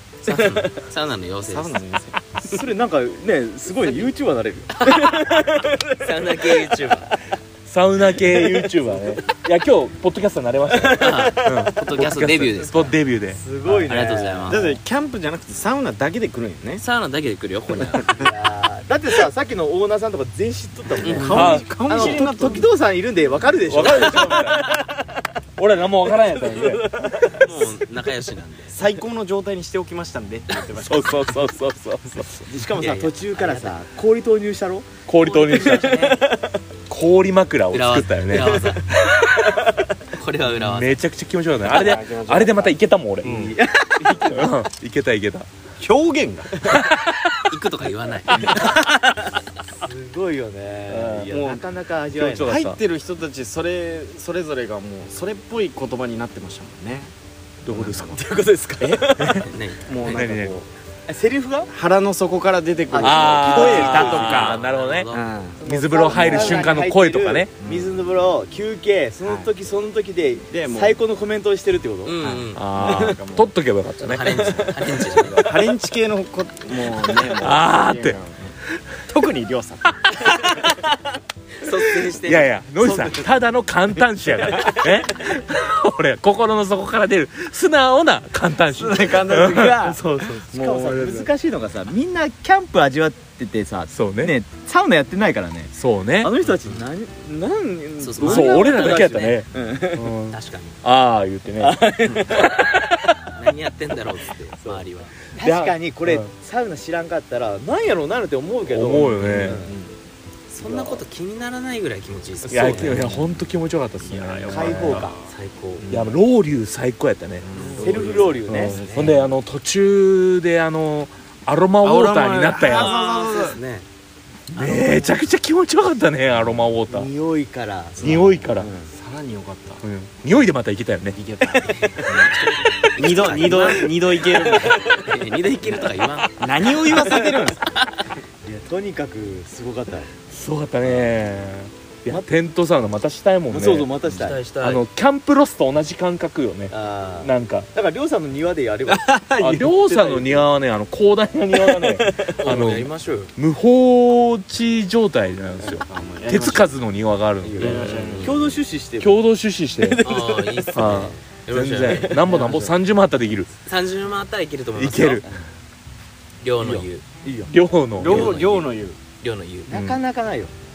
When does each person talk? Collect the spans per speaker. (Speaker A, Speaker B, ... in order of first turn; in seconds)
Speaker A: 0.2-1.8, 4.8-5.2, 6.0-7.2, 11.0-13.0, 13.8-14.8, 16.8-18.2, 21.0-21.5, 27.4-28.8, 32.8-33.8, 35.2-36.2, 37.7-38.9, 40.1-41.0, 47.5-48.6, 59.4-60.2, 63.4-65.3, 72.0-72.7, 74.0-75.4, 80.3-80.7, 81.6-83.4, 96.4-96.9, 98.0-99.5, 100.3-100.8, 103.3-105.2, 110.5-113.1, 115.3-115.9, 117.5-119.2, 122.7-123.9, 131.7-138.0, 144.0-144.8, 152.4-153.3, 157.6-158.4, 160.0-162.2, 163.7-165.2, 166.4-167.0, 168.0-169.7
Speaker B: 0.3-0.7, 2.4-6.9, 8.1-9.0, 10.7-11.2, 13.3-14.8, 18.1-25.0, 26.6-27.3, 30.8-34.9, 35.7-36.5, 38.4-38.7, 43.2-44.5, 49.8-52.5, 58.1-59.4, 61.1-61.7, 62.9-64.0, 65.6-73.2, 74.5-75.0, 90.4-100.1, 101.6-102.8, 104.6-109.8, 110.6-111.0, 112.5-112.9, 114.5-115.2, 117.8-118.8, 124.5-124.9, 126.9-128.9, 138.4-140.1, 140.8-141.2, 143.5-144.4, 146.7-149.1, 151.5-152.4, 157.4-159.3, 159.8-160.9, 165.2-165.5, 166.6-167.5, 169.7-170.5
Speaker C: 1.5-2.2, 13.7-13.9, 14.5-16.8, 17.9-18.3, 21.0-22.7, 28.7-31.4, 41.6-42.8, 45.8-46.5, 51.3-51.6, 52.4-57.1, 57.7-58.2, 58.8-59.2, 59.9-60.7, 61.7-66.9, 67.6-68.0, 69.2-69.5, 70.5-71.0, 72.2-73.5, 74.2-80.2, 88.6-91.3, 102.1-102.3, 109.2-110.0, 112.5-113.4, 114.0-116.2, 117.4-119.3, 121.8-123.6, 126.3-126.7, 128.6-129.8, 131.2-132.4, 133.0-135.1, 136.4-137.6, 148.9-150.5, 155.7-156.8, 157.6-158.6, 162.2-162.8, 168.0-169.0
Speaker D: 7.7-13.4, 21.2-22.2, 23.7-24.7, 25.6-27.7, 35.1-36.1, 36.9-38.6, 40.5-43.5, 44.2-45.5, 46.7-47.1, 50.9-51.3, 52.1-52.8, 57.6-58.2, 59.2-59.5, 60.1-60.6, 63.0-65.1, 65.6-67.5, 72.5-74.6, 77.3-78.2, 82.1-90.5, 93.9-94.3, 95.7-96.3, 98.2-101.8, 105.4-106.3, 108.7-109.6, 112.5-115.1, 115.9-117.5, 118.5-123.0, 124.5-127.1, 128.0-128.7, 129.8-131.2, 140.3-143.9, 144.6-147.7, 149.4-158.3, 159.0-160.1, 160.7-163.5, 164.7-165.3, 167.5-168.3, 169.7-170.0